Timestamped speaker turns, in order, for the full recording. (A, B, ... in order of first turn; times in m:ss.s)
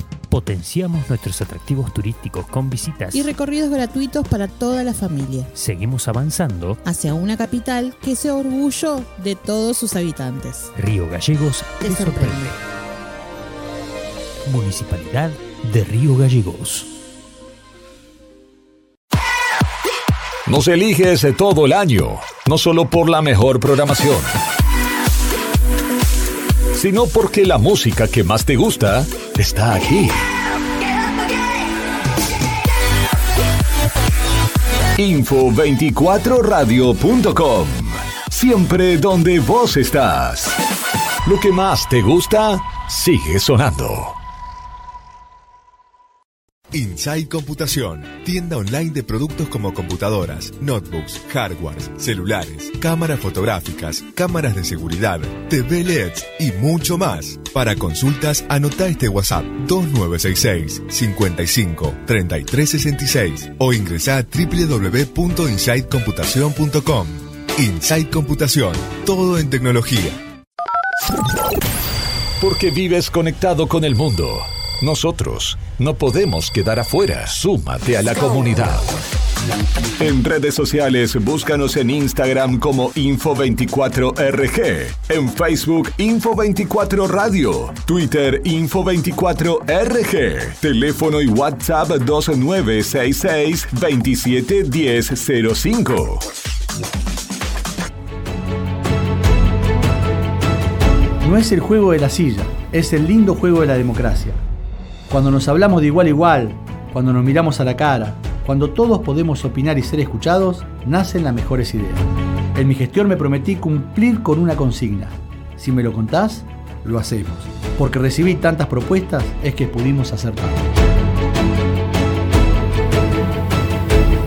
0:00.3-0:03.3 A
0:03.1-0:05.5 B
0:05.5-0:06.8 A
0:06.8-0:10.7 B
0:10.8-0:12.6 A
0:11.8-0:12.5 B
0:14.4-0:16.9 A
0:20.4-0:24.3 C
0:26.7-0:30.2 C
0:35.0-0:40.6 C
0:41.2-0:44.1 C
0:46.7-1:10.2 D
1:12.4-1:18.9 C
1:20.0-1:36.2 C
1:41.2-1:44.4 E
1:45.1-2:00.7 E